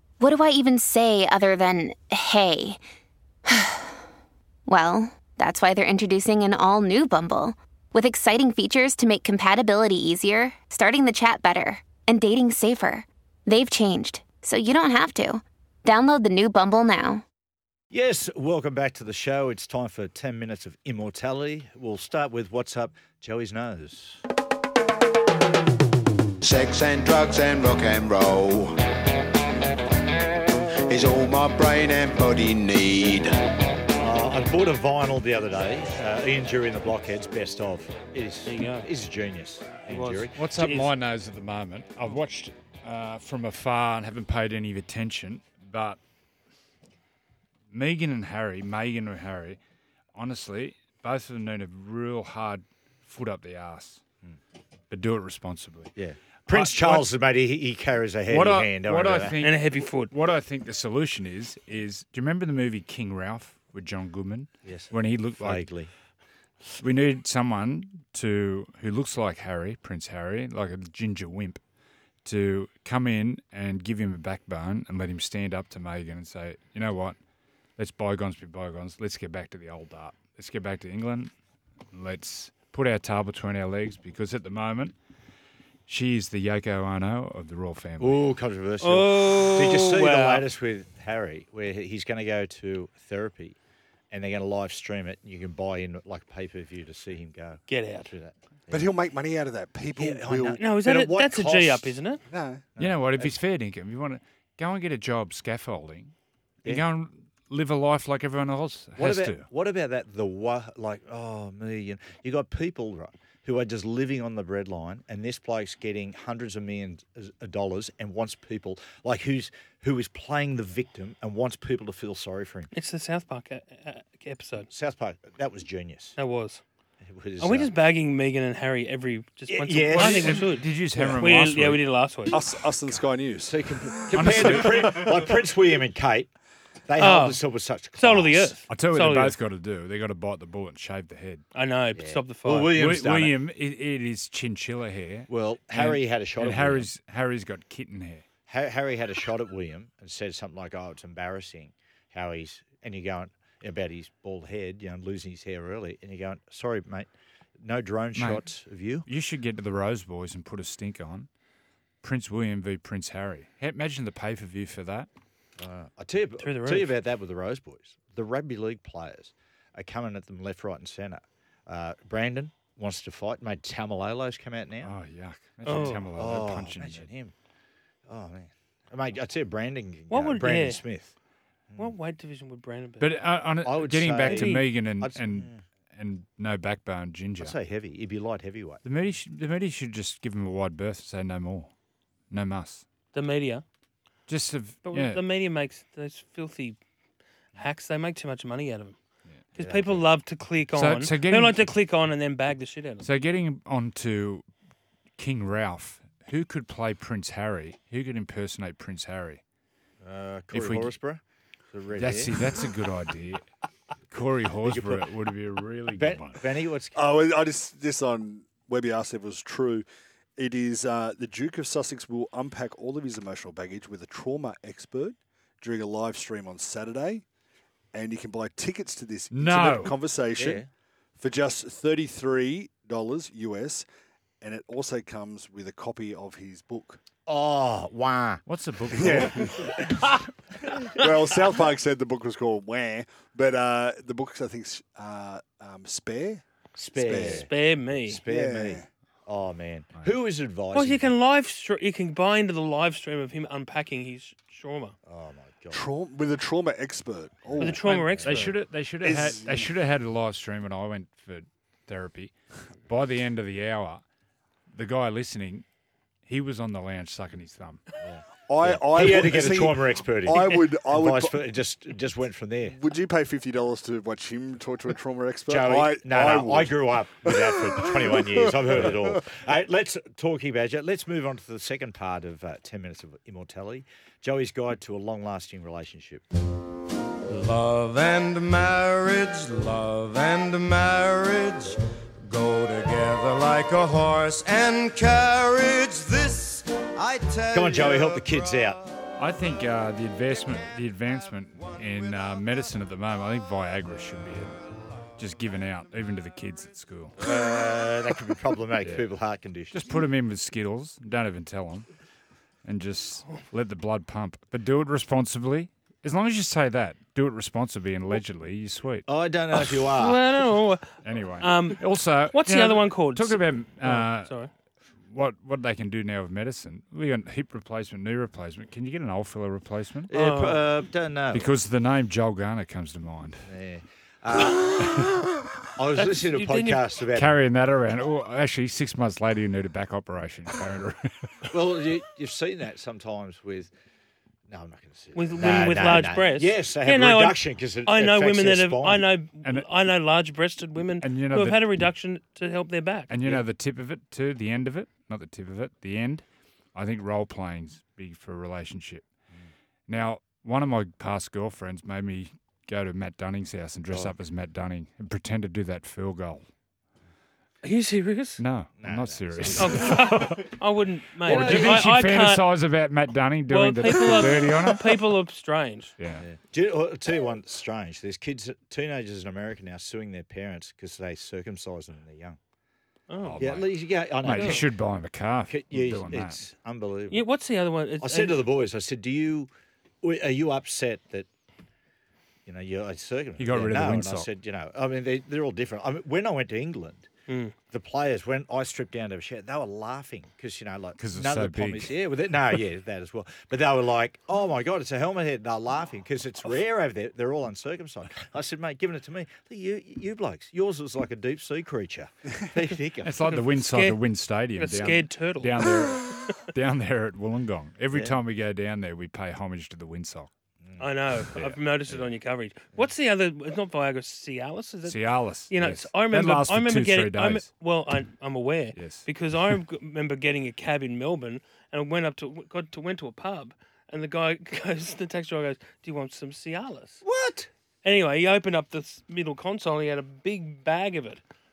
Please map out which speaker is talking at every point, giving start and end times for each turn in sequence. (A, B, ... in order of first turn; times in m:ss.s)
0:00.2-0:02.8 A
0:03.5-0:04.0 A
0:04.7-0:17.2 A
0:17.9-0:24.2 B
0:26.4-0:28.8 C
0:30.9-0:33.3 C
0:34.0-0:40.4 B
0:38.5-0:38.8 D
0:39.9-0:40.9 D
0:40.4-0:46.0 E
0:47.7-0:49.6 E
0:50.2-0:54.0 E
0:54.9-0:55.9 E
0:56.0-0:59.4 B
0:56.5-0:57.1 E
0:58.3-1:05.7 E
0:59.4-1:00.2 D
1:04.6-1:05.9 B
1:06.8-1:11.6 E
1:12.2-1:17.2 E
1:17.8-1:21.3 E
1:21.9-1:25.0 E
1:25.9-1:28.3 E
1:28.0-1:33.6 B
1:28.8-1:30.5 D
1:34.1-1:38.9 B
1:37.7-1:38.1 D
1:38.7-1:40.6 F
1:40.0-1:42.0 B
1:40.6-1:42.2 D
1:42.3-1:42.6 F
1:42.8-1:43.4 B
1:42.8-1:46.1 E
1:46.6-1:49.5 E
1:49.0-2:02.7 B
2:02.7-2:04.7 D
2:04.7-2:06.2 B
2:06.2-2:06.6 D
2:07.0-2:07.7 B
2:07.4-2:12.4 D
2:09.5-2:10.5 B
2:10.0-2:11.9 E
2:11.0-2:11.4 F
2:12.3-2:14.2 F
2:12.9-2:16.3 B
2:14.1-2:15.2 E
2:16.9-2:18.6 B
2:17.0-2:17.4 D
2:18.0-2:19.4 D
2:18.7-2:21.5 E
2:21.5-2:22.8 D
2:21.9-2:23.4 B
2:22.7-2:28.2 E
2:25.3-2:26.9 B
2:28.5-2:39.1 B
2:38.2-2:38.5 E
2:39.0-2:41.3 E
2:42.0-2:45.1 E
2:45.6-2:55.0 B
2:46.4-2:46.9 D
2:54.8-2:57.1 E
2:55.7-2:56.1 D
2:55.7-2:57.3 B
2:58.1-3:01.1 B
3:00.1-3:00.8 D
3:01.8-3:03.1 D
3:03.0-3:07.6 E
3:03.6-3:05.6 B
3:04.3-3:04.7 D
3:07.4-3:08.8 B
3:08.8-3:11.7 E
3:12.3-3:12.9 E
3:13.1-3:13.6 D
3:14.3-3:15.2 E
3:14.8-3:16.8 D
3:17.6-3:19.0 D
3:19.6-3:23.1 D
3:19.6-3:20.0 B
3:20.7-3:21.7 E
3:23.0-3:24.5 E
3:25.2-3:29.4 E
3:30.0-3:32.3 B
3:30.5-3:30.9 E
3:32.0-3:33.4 E
3:34.1-3:36.4 E
3:34.6-3:35.0 B
3:36.0-3:37.1 B
3:36.9-3:39.8 F
3:40.4-3:47.2 F
3:47.9-3:50.6 F
3:49.3-3:50.0 E
3:50.4-3:50.7 B
3:51.2-3:53.9 F
3:54.4-3:57.0 F
3:57.3-3:58.4 B
3:58.5-3:59.7 E
3:59.0-3:59.6 B
3:59.0-4:00.1 F
4:01.0-4:06.4 F
4:06.8-4:11.1 B
4:06.9-4:07.5 F
4:07.3-4:08.2 D
4:08.3-4:08.8 F
4:10.7-4:15.0 D
4:15.1-4:15.8 B
4:15.7-4:18.3 F
4:17.6-4:18.5 D
4:17.7-4:18.5 B
4:17.8-4:22.3 E
4:19.0-4:19.7 F
4:22.9-4:24.0 E
4:24.7-4:25.7 E
4:26.3-4:27.8 E
4:28.0-4:32.8 B
4:28.5-4:31.5 F
4:32.7-4:38.9 F
4:35.5-4:46.2 B
4:47.3-4:58.3 G
4:57.5-4:58.8 B
4:59.2-5:04.6 E
5:05.2-5:07.2 E
5:07.2-5:09.9 B
5:08.8-5:09.1 E
5:09.7-5:11.9 E
5:12.6-5:19.1 E
5:19.1-5:20.2 B
5:19.9-5:21.8 D
5:21.0-5:24.4 E
5:22.3-5:24.5 D
5:25.1-5:30.1 E
5:30.1-5:31.5 B
5:30.1-5:30.6 D
5:31.3-5:33.5 E
5:33.4-5:35.1 B
5:35.8-5:37.4 B
5:36.0-5:36.8 D
5:37.2-5:41.1 E
5:41.5-5:43.7 B
5:44.5-5:49.1 B
5:45.1-5:53.2 D
5:49.4-5:49.8 E
5:51.0-5:51.7 E
5:53.1-5:59.0 E
5:59.9-6:06.5 E
6:03.9-6:04.2 B
6:07.6-6:08.4 D
6:08.4-6:10.6 E
6:08.8-6:10.0 B
6:09.6-6:12.5 D
6:11.2-6:15.0 E
6:11.3-6:11.8 B
6:13.5-6:16.0 D
6:16.0-6:16.2 E
6:16.2-6:22.4 B
6:23.1-6:23.5 D
6:23.2-6:26.4 E
6:23.4-6:24.7 B
6:24.3-6:24.6 D
6:25.5-6:27.2 B
6:27.1-6:28.4 D
6:28.0-6:29.5 B
6:30.0-6:31.3 B
6:32.5-6:37.1 B
6:33.4-6:34.3 E
6:37.3-6:37.5 D
6:37.7-6:53.2 B
6:41.0-6:41.9 E
6:53.0-7:00.3 E
6:53.2-6:54.0 D
6:54.6-6:56.3 D
6:57.9-6:58.2 B
7:00.8-7:17.0 D
7:01.3-7:01.6 E
7:04.8-7:07.5 E
7:08.7-7:09.1 E
7:17.0-7:17.5 B
7:17.8-7:21.2 D